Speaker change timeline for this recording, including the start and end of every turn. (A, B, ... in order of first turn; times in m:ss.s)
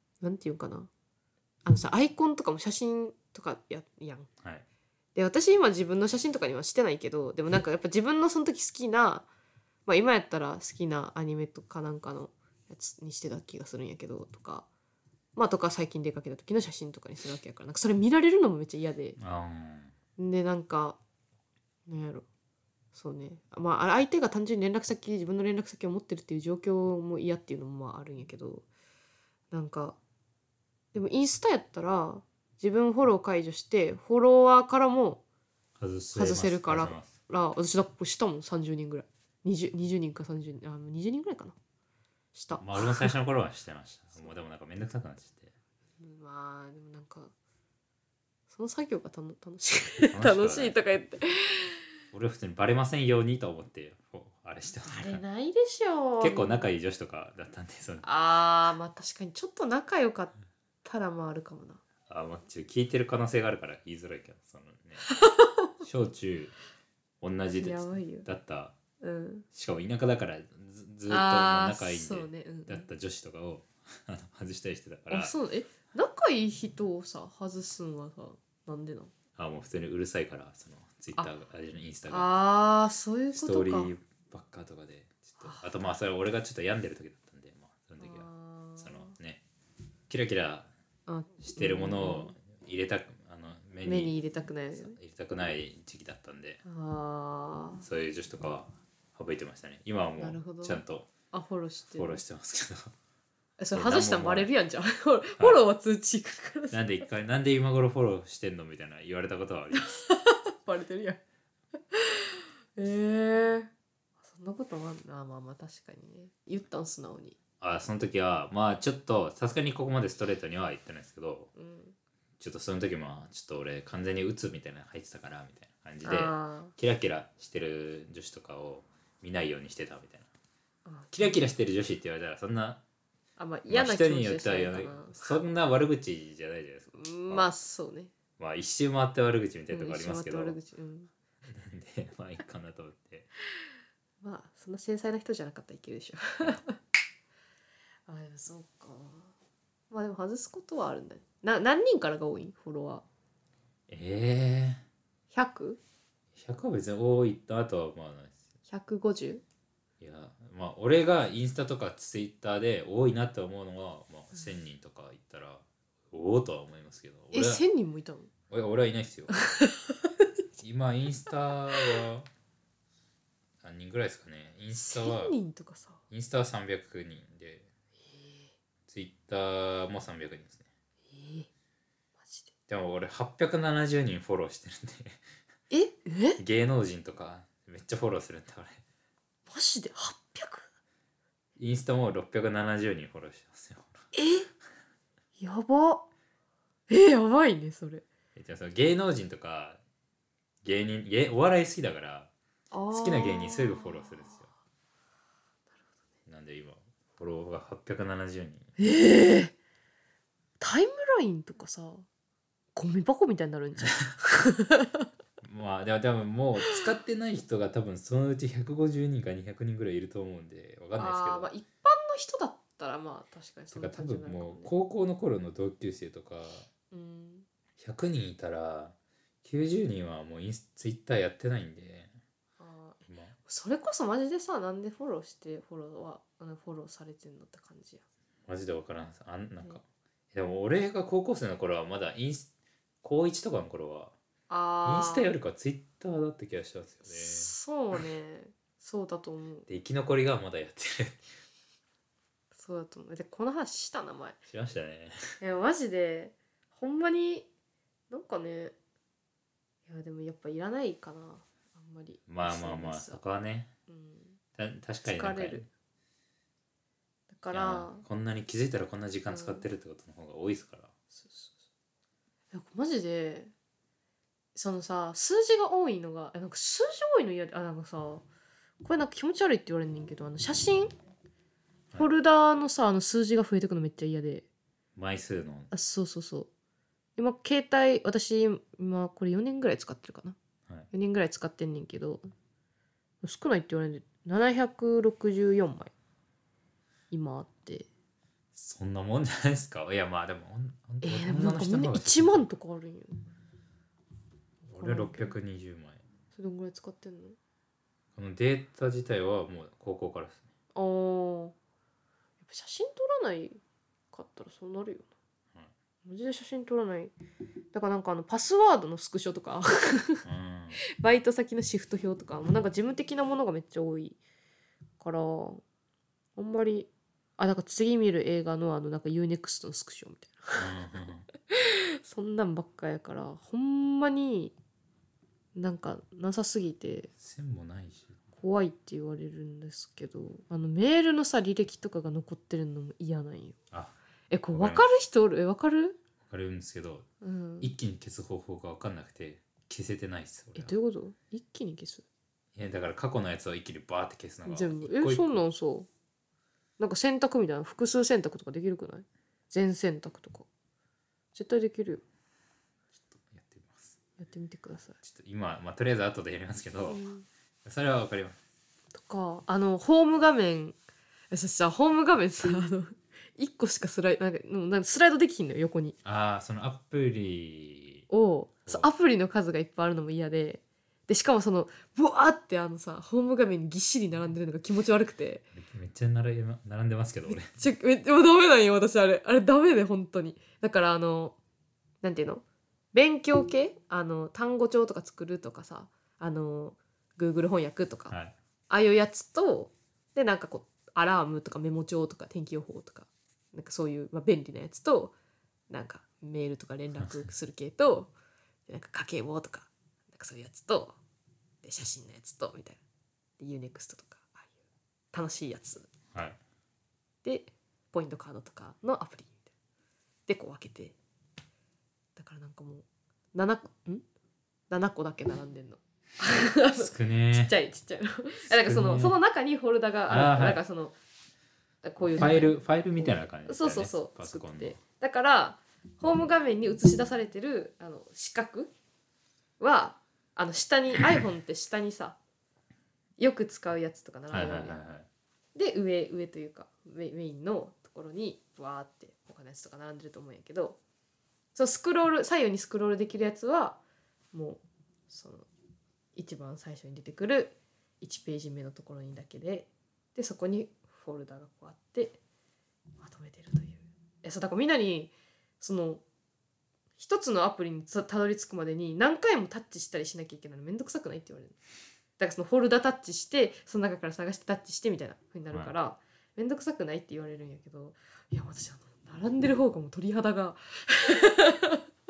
0:00.2-0:00.9 A
0:01.6-0:04.3 A
0:05.1-0:09.3 A
0:09.8-0:14.7 A
0:15.4-0:19.2 A
0:19.2-0:19.9 B
0:20.2-0:21.0 A
0:21.9-0:22.2 A
0:22.9-0:28.6 A
0:29.5-0:30.0 A
0:30.9-0:35.2 A
0:35.8-0:37.1 B
0:36.1-0:41.5 A
0:42.3-0:43.1 A
0:42.6-0:45.5 B
0:46.0-0:47.3 A
0:48.5-0:51.8 A
0:50.1-0:50.7 B
0:52.1-0:55.2 B
0:54.8-0:56.7 A
0:56.2-0:58.0 B
0:58.0-1:01.8 A
1:02.1-1:05.0 B
1:05.0-1:05.7 A
1:05.8-1:06.5 B
1:07.2-1:08.8 B
1:07.6-1:08.3 A
1:09.0-1:09.4 A
1:09.5-1:15.3 B
1:11.1-1:12.9 A
1:15.1-1:19.1 A
1:19.4-1:22.3 B
1:22.1-1:23.9 A
1:23.3-1:28.3 B
1:25.4-1:25.7 A
1:28.0-1:29.2 A
1:28.8-1:29.4 B
1:30.1-1:30.7 B
1:31.1-1:32.3 A
1:31.4-1:34.1 B
1:33.8-1:35.0 A
1:34.7-1:36.6 B
1:36.6-1:37.8 A
1:37.8-1:41.1 B
1:40.2-1:42.2 A
1:42.0-1:42.9 B
1:43.6-1:47.0 A
1:43.7-1:44.5 B
1:46.7-1:50.0 B
1:49.8-1:51.2 A
1:51.9-1:53.7 A
1:54.2-1:57.4 A
1:57.6-2:01.5 B
2:01.5-2:02.0 A
2:02.4-2:10.3 B
2:06.0-2:06.7 A
2:10.8-2:11.4 A
2:11.1-2:12.8 B
2:13.4-2:15.4 A
2:13.7-2:17.5 B
2:16.9-2:18.1 A
2:18.4-2:20.6 B
2:19.7-2:21.1 A
2:21.4-2:23.3 B
2:24.2-2:26.8 A
2:28.1-2:29.3 A
2:29.9-2:33.0 A
2:33.9-2:34.8 B
2:35.3-2:35.8 A
2:36.3-2:38.4 B
2:38.7-2:39.4 A
2:40.0-2:47.6 B
2:47.3-2:48.3 A
2:48.5-2:49.3 B
2:49.5-2:50.1 A
2:50.6-2:52.3 B
2:53.6-2:55.3 B
2:54.7-2:56.0 A
2:56.1-2:57.7 B
2:58.1-2:58.5 A
2:58.9-3:00.6 B
3:01.1-3:01.5 A
3:02.2-3:02.5 A
3:02.7-3:05.2 B
3:05.7-3:06.4 A
3:06.4-3:08.8 B
3:09.5-3:10.6 A
3:11.6-3:14.0 B
3:14.1-3:14.5 A
3:15.4-3:16.0 A
3:16.9-3:18.0 A
3:18.4-3:19.8 B
3:20.6-3:22.3 B
3:22.7-3:24.3 A
3:22.9-3:24.5 B
3:26.2-3:28.7 B
3:28.8-3:29.5 A
3:30.6-3:32.0 A
3:32.7-3:35.1 A
3:35.4-3:41.5 B
3:40.9-3:44.7 A
3:43.7-3:46.7 B
3:46.9-3:47.4 A
3:47.8-3:52.1 B
3:52.6-3:58.0 A
3:53.1-3:53.4 B
3:58.5-4:02.5 B
4:03.0-4:04.1 B
4:04.5-4:05.3 A
4:04.8-4:08.0 B
4:07.1-4:09.7 A
4:09.7-4:11.2 B
4:12.5-4:14.4 A
4:14.5-4:15.2 B
4:15.4-4:17.5 A
4:18.1-4:18.7 A
4:19.8-4:23.2 A
4:22.3-4:23.7 B
4:23.9-4:24.4 A
4:24.6-4:25.6 B
4:25.0-4:25.6 A
4:27.3-4:28.0 A
4:27.5-4:30.9 B
4:29.3-4:29.6 A
4:31.1-4:31.5 A
4:32.5-4:33.5 A
4:34.5-4:38.2 A
4:38.8-4:40.9 A
4:41.9-4:44.4 A
4:45.0-4:45.7 B
4:45.7-4:46.5 A
4:47.2-4:50.4 A
4:50.9-4:52.3 A
4:53.2-4:55.9 A
4:57.1-4:57.9 A
4:58.5-5:02.4 B
5:01.0-5:03.2 A
5:04.6-5:05.4 A
5:04.7-5:06.0 B
5:06.3-5:07.4 A
5:08.2-5:10.4 B
5:10.7-5:11.5 A
5:12.4-5:13.6 A
5:14.1-5:15.1 A
5:16.0-5:17.1 A
5:17.7-5:20.2 A
5:20.2-5:20.8 B
5:21.0-5:24.2 A
5:25.0-5:25.6 A
5:26.4-5:30.6 A
5:30.5-5:31.3 B
5:31.5-5:34.5 A
5:35.5-5:37.1 A
5:37.2-5:38.2 B
5:38.4-5:43.6 A
5:43.7-5:44.0 B
5:44.3-5:46.0 A
5:44.5-5:44.8 B
5:46.2-5:47.0 B
5:47.2-5:47.7 A
5:47.6-5:50.8 B
5:50.5-5:52.0 A
5:52.5-5:55.4 B
5:54.4-5:55.9 A
5:56.8-6:00.5 A
6:01.3-6:02.0 A
6:02.9-6:04.0 B
6:04.2-6:05.0 A
6:05.0-6:07.0 B
6:06.8-6:07.2 A
6:07.6-6:08.4 B
6:08.9-6:10.8 A
6:11.3-6:16.0 A
6:16.0-6:18.0 B
6:18.1-6:25.4 A
6:25.5-6:27.5 B
6:27.3-6:31.4 A
6:32.0-6:38.2 A
6:38.1-6:38.3 B
6:38.7-6:45.1 A
6:45.7-6:48.1 A
6:48.7-6:51.0 A
6:51.6-6:52.8 A
6:53.4-6:54.5 A
6:55.1-6:55.9 A
6:56.1-6:56.4 B
6:57.2-6:59.5 A
7:00.3-7:00.9 A
7:02.2-7:04.0 A
7:04.7-7:10.9 A
7:06.7-7:07.5 B
7:08.5-7:09.2 B
7:10.1-7:10.6 B
7:11.8-7:18.7 A
7:12.1-7:14.8 B
7:19.6-7:22.2 A
7:23.2-7:24.8 A
7:24.3-7:25.1 B
7:25.5-7:30.8 A
7:31.5-7:33.8 A
7:34.3-7:35.5 A
7:36.1-7:42.2 A
7:43.0-7:46.0 A
7:47.0-7:51.6 A
7:52.2-8:01.8 A